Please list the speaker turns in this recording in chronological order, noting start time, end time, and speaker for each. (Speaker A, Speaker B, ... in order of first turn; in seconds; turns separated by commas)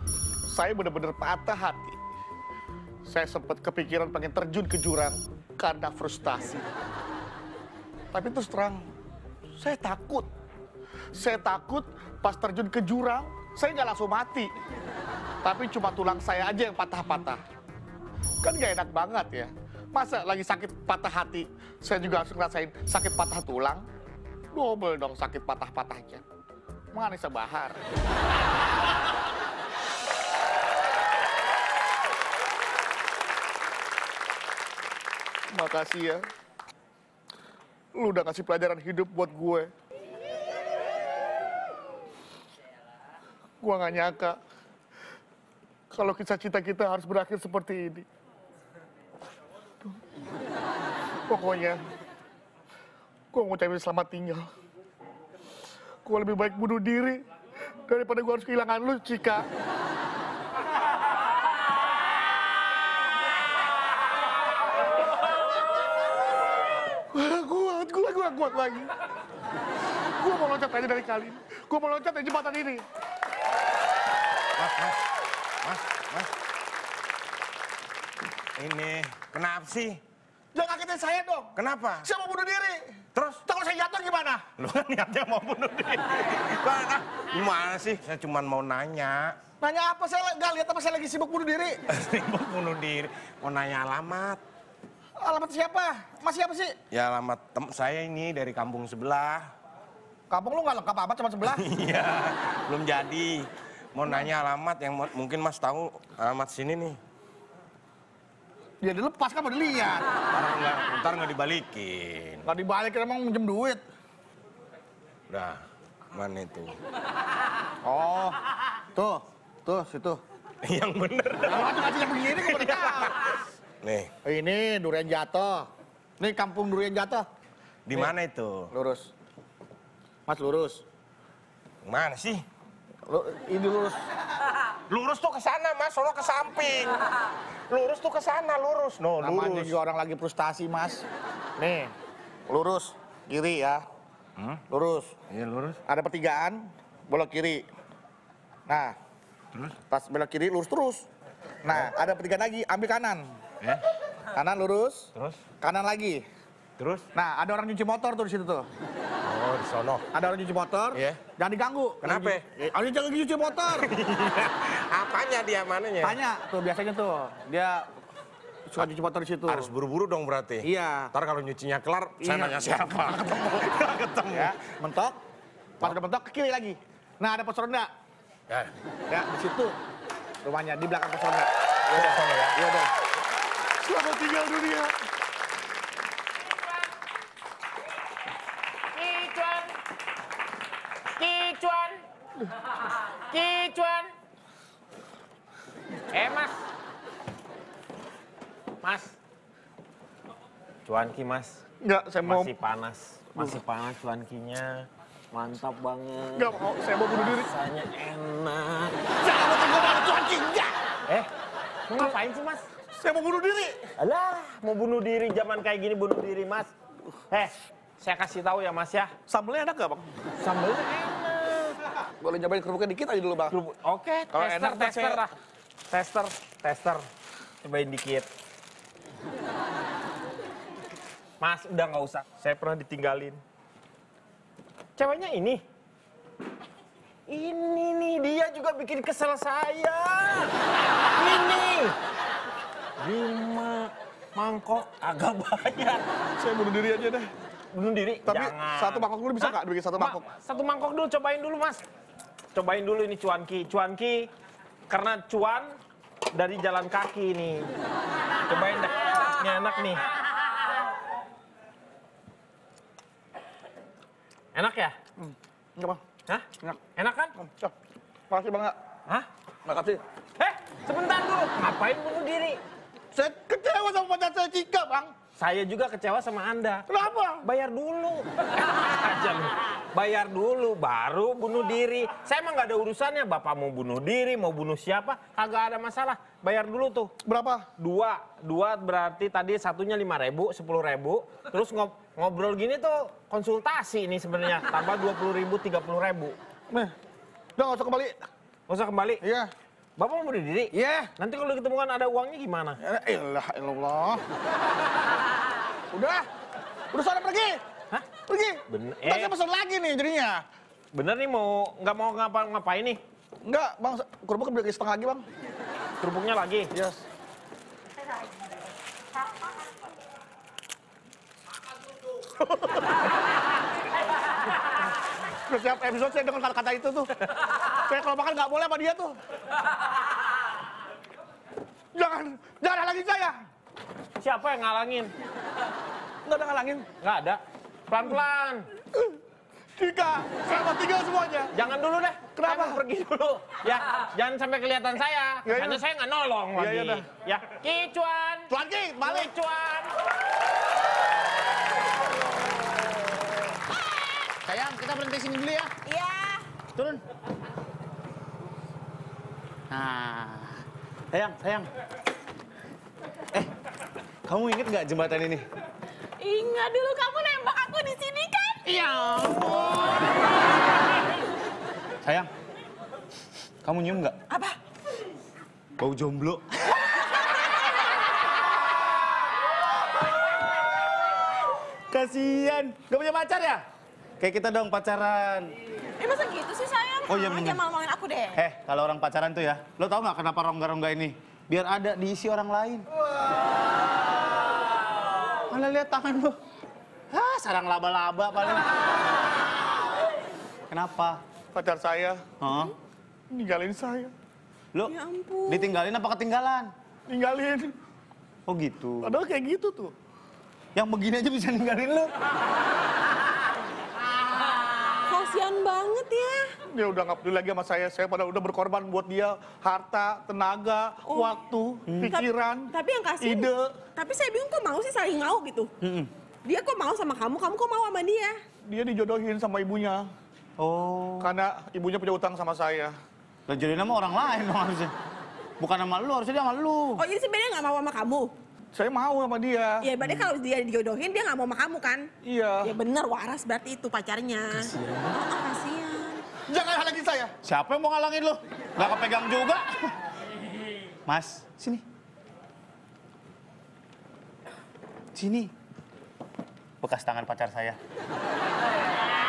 Speaker A: 0.5-2.0, Speaker A: 3.1-6.7, Speaker A: 8.1-8.9, Speaker A: 9.6-10.3, Speaker A: 11.1-14.5, Speaker A: 15.4-17.4, Speaker A: 18.4-23.8, Speaker A: 24.5-26.2, Speaker A: 26.9-27.8, Speaker A: 35.5-36.2, Speaker A: 37.9-39.7, Speaker A: 43.6-44.4, Speaker A: 45.9-48.1, Speaker A: 51.3-51.8, Speaker A: 53.3-54.5, Speaker A: 56.0-57.2, Speaker A: 57.9-59.5, Speaker A: 67.1-68.9, Speaker A: 70.2-72.8, Speaker B: 74.6-75.0, Speaker B: 75.6-76.3, Speaker B: 78.6-80.0, Speaker A: 80.5-82.9, Speaker B: 81.6-82.1, Speaker B: 83.2-83.4, Speaker A: 83.4-84.5, Speaker C: 84.8-85.5, Speaker B: 85.6-89.4, Speaker A: 89.6-91.8, Speaker B: 92.0-94.4, Speaker A: 95.2-96.8, Speaker B: 96.9-99.5, Speaker A: 100.3-101.7, Speaker B: 101.7-107.0, Speaker A: 108.8-110.1, Speaker B: 110.3-112.4, Speaker A: 112.4-113.8, Speaker B: 115.3-115.6, Speaker B: 116.2-116.8, Speaker A: 117.8-118.4, Speaker A: 118.9-120.2, Speaker B: 120.7-121.7, Speaker A: 121.4-123.2, Speaker B: 123.8-124.1, Speaker A: 124.2-125.7, Speaker A: 126.2-127.3, Speaker B: 127.9-128.7, Speaker A: 128.7-129.1, Speaker A: 130.3-130.8, Speaker B: 131.8-132.4, Speaker A: 133.1-134.0, Speaker B: 134.9-137.0, Speaker B: 137.7-139.8, Speaker A: 139.2-141.1, Speaker A: 141.6-141.9, Speaker A: 142.5-143.8, Speaker A: 144.7-145.1, Speaker B: 145.3-145.8, Speaker A: 145.8-147.7, Speaker A: 148.7-149.0, Speaker A: 149.8-151.1, Speaker A: 151.6-153.3, Speaker A: 154.3-156.2, Speaker B: 156.8-157.1, Speaker A: 157.1-158.7, Speaker B: 159.3-160.1, Speaker A: 160.1-163.9, Speaker B: 162.0-162.4, Speaker B: 164.2-166.2, Speaker A: 166.0-167.8, Speaker A: 168.7-169.7, Speaker B: 169.5-174.5, Speaker A: 170.6-171.1, Speaker A: 172.2-173.0, Speaker A: 174.3-175.2, Speaker A: 175.8-177.9, Speaker A: 179.1-179.8, Speaker A: 180.4-182.9, Speaker D: 182.0-182.6, Speaker A: 183.8-184.9, Speaker D: 188.9-189.7, Speaker D: 191.1-192.0, Speaker D: 193.3-194.1, Speaker D: 196.1-196.7, Speaker D: 198.8-199.2, Speaker D: 200.9-201.6, Speaker A: 201.8-202.5, Speaker D: 202.2-206.6, Speaker A: 206.4-207.5, Speaker D: 207.1-209.0, Speaker A: 209.2-210.7, Speaker D: 211.9-212.7, Speaker A: 212.9-213.9, Speaker D: 214.0-216.7, Speaker D: 217.3-219.1, Speaker A: 219.3-220.1, Speaker D: 220.4-221.8, Speaker A: 222.2-223.6, Speaker D: 223.5-225.3, Speaker A: 224.3-225.2, Speaker D: 225.9-227.1, Speaker D: 227.6-228.3, Speaker D: 231.4-233.4, Speaker D: 235.0-235.6, Speaker D: 237.3-240.5, Speaker D: 241.2-242.0, Speaker D: 243.0-246.1, Speaker A: 246.4-247.3, Speaker D: 247.7-251.8, Speaker A: 248.3-250.2, Speaker D: 252.5-254.3, Speaker D: 254.9-255.8, Speaker D: 256.3-257.7, Speaker D: 258.5-260.0, Speaker D: 264.6-265.0, Speaker A: 265.2-266.0, Speaker D: 266.3-267.3, Speaker A: 267.4-267.7, Speaker A: 268.3-268.8, Speaker A: 269.6-270.0, Speaker D: 270.4-272.6, Speaker A: 273.1-275.1, Speaker D: 275.4-276.9, Speaker A: 276.9-277.4, Speaker D: 277.4-287.1, Speaker A: 287.2-287.7, Speaker D: 287.8-296.4, Speaker A: 297.6-298.2, Speaker D: 298.7-299.2, Speaker A: 299.2-299.5, Speaker D: 300.0-302.8, Speaker A: 300.7-301.1, Speaker A: 302.8-304.2, Speaker A: 305.9-306.3, Speaker A: 306.9-307.6, Speaker A: 308.3-310.4, Speaker D: 308.7-309.3, Speaker D: 310.9-313.0, Speaker A: 313.4-315.2, Speaker D: 316.0-316.7, Speaker A: 316.7-317.1, Speaker A: 325.5-327.1, Speaker A: 327.9-329.2, Speaker A: 331.9-333.4, Speaker D: 334.2-335.1, Speaker A: 336.2-336.9, Speaker D: 337.0-338.7, Speaker A: 339.8-341.5, Speaker D: 341.5-348.5, Speaker A: 342.4-342.8, Speaker A: 345.4-345.8, Speaker A: 346.5-347.1, Speaker A: 348.5-349.3, Speaker D: 349.0-349.9, Speaker C: 354.4-355.7, Speaker E: 355.9-356.4, Speaker C: 356.7-357.0, Speaker C: 359.7-361.7, Speaker C: 364.2-365.5, Speaker E: 366.2-369.4, Speaker C: 372.0-372.3, Speaker C: 373.6-374.2, Speaker E: 374.3-374.6, Speaker C: 375.8-376.8, Speaker C: 381.9-383.6, Speaker C: 384.2-385.6, Speaker E: 386.0-388.4, Speaker C: 387.1-387.6, Speaker C: 388.3-392.9, Speaker C: 395.5-396.4, Speaker C: 397.1-398.8, Speaker C: 400.7-401.2, Speaker A: 401.5-402.3, Speaker C: 402.4-402.7, Speaker A: 403.3-404.1, Speaker E: 404.9-405.6, Speaker C: 405.5-406.7, Speaker A: 407.1-407.7, Speaker C: 408.5-409.2, Speaker A: 409.0-409.9, Speaker C: 410.8-412.1, Speaker E: 415.1-416.5, Speaker A: 416.7-423.7, Speaker C: 421.9-422.2, Speaker E: 422.7-423.4, Speaker E: 424.0-425.7, Speaker C: 425.8-426.1, Speaker E: 426.4-428.4, Speaker A: 428.6-430.1, Speaker C: 430.6-431.3, Speaker A: 431.2-433.0, Speaker C: 433.5-434.9, Speaker C: 435.6-437.0, Speaker E: 437.0-438.3, Speaker A: 438.7-439.9, Speaker E: 439.9-442.1, Speaker A: 442.2-442.8, Speaker E: 442.7-444.6, Speaker C: 444.5-445.2, Speaker E: 445.1-446.2, Speaker A: 446.5-447.3, Speaker C: 447.4-449.9, Speaker C: 451.1-451.8, Speaker C: 455.1-455.5, Speaker C: 456.8-457.8